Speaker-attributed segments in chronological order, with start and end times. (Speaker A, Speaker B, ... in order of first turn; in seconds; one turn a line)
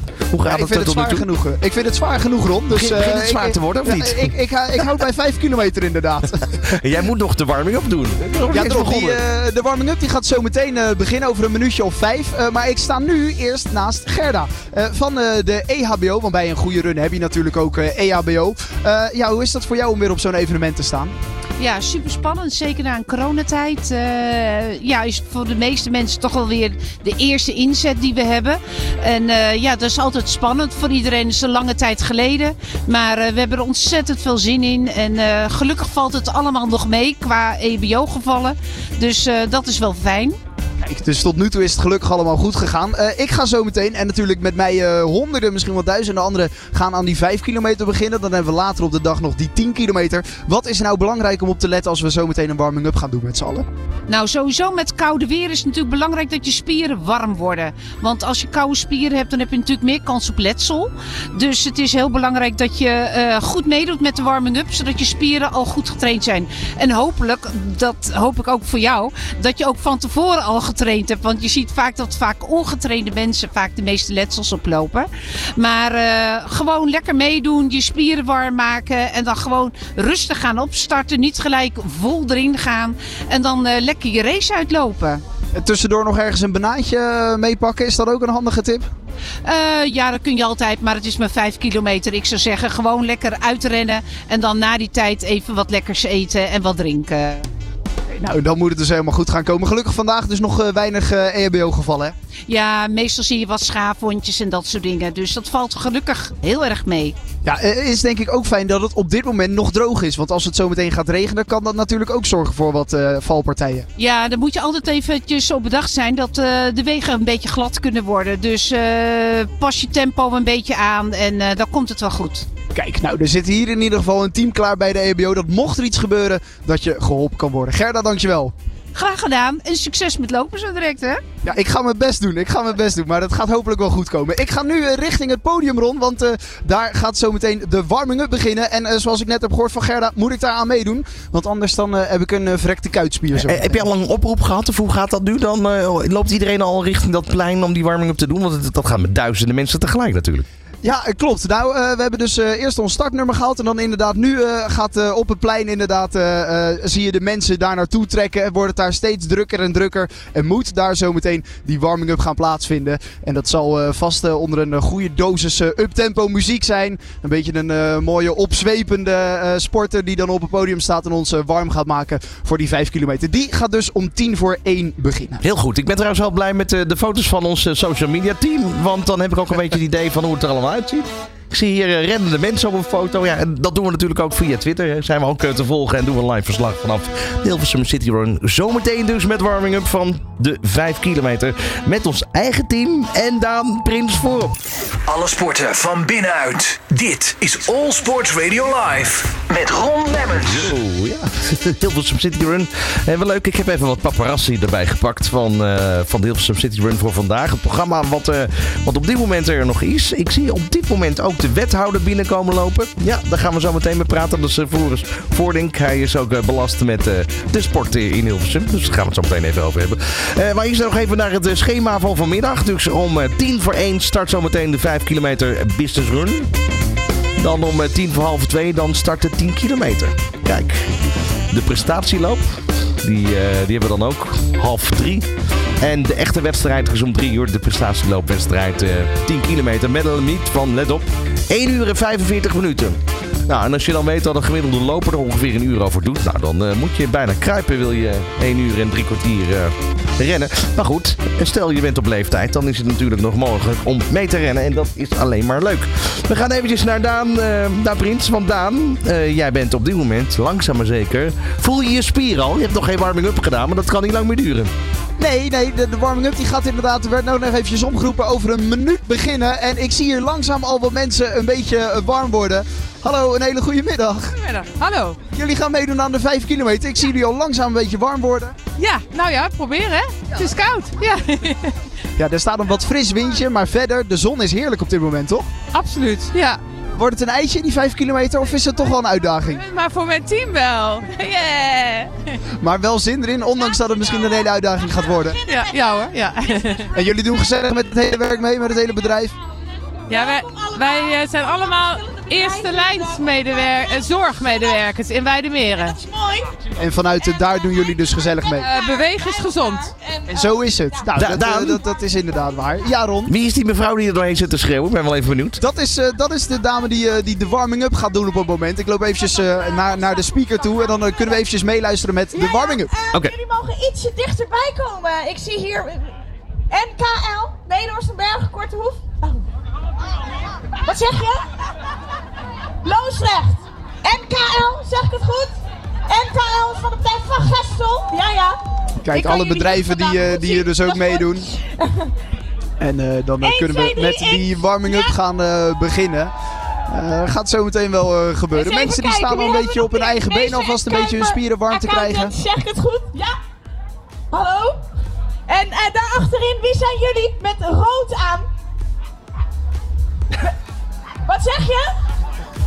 Speaker A: 0.3-1.2
Speaker B: 0.4-6.6
Speaker A: 2.7-4.3
Speaker A: 6.7-9.2
Speaker B: 8.5-21.1
Speaker C: 21.6-40.4
Speaker B: 40.8-53.7
Speaker C: 54.1-85.2
Speaker B: 85.5-88.9
Speaker C: 89.4-97.5
Speaker B: 98.2-102.1
Speaker C: 102.5-107.2
Speaker B: 107.4-113.9
Speaker C: 114.0-122.5
Speaker B: 122.7-128.5
Speaker C: 128.9-131.2
Speaker B: 131.4-143.8
Speaker A: 143.3-150.5
Speaker B: 150.8-175.4
Speaker A: 175.4-194.6
Speaker D: 195.1-200.7
Speaker A: 200.3-226.5
Speaker A: 227.4-231.0
Speaker A: 231.5-235.3
Speaker A: 235.8-264.7
Speaker B: 265.2-274.4
Speaker E: 274.3-275.2
Speaker B: 275.3-278.6
Speaker E: 278.8-281.7
Speaker B: 282.2-285.5
Speaker E: 285.7-286.6
Speaker B: 286.9-289.6
Speaker E: 289.5-292.3
Speaker B: 292.6-295.4
Speaker F: 293.6-297.0
Speaker E: 295.5-296.9
Speaker B: 296.9-299.3
Speaker F: 300.1-304.9
Speaker E: 300.1-305.9
Speaker F: 305.6-306.6
Speaker B: 306.8-308.7
Speaker F: 307.3-311.1
Speaker E: 308.6-309.9
Speaker B: 310.3-313.3
Speaker A: 311.1-311.8
Speaker A: 313.3-315.6
Speaker B: 315.6-322.9
Speaker F: 319.7-320.5
Speaker F: 322.3-326.1
Speaker F: 326.7-329.4
Speaker F: 330.8-331.5
Speaker F: 332.8-335.5
Speaker F: 336.1-338.6
Speaker B: 339.0-341.5
Speaker F: 339.1-342.1
Speaker B: 342.8-346.3
Speaker F: 343.4-345.2
Speaker B: 346.9-352.3
Speaker F: 348.5-353.4
Speaker F: 354.3-354.8
Speaker F: 355.5-358.5
Speaker F: 361.2-361.9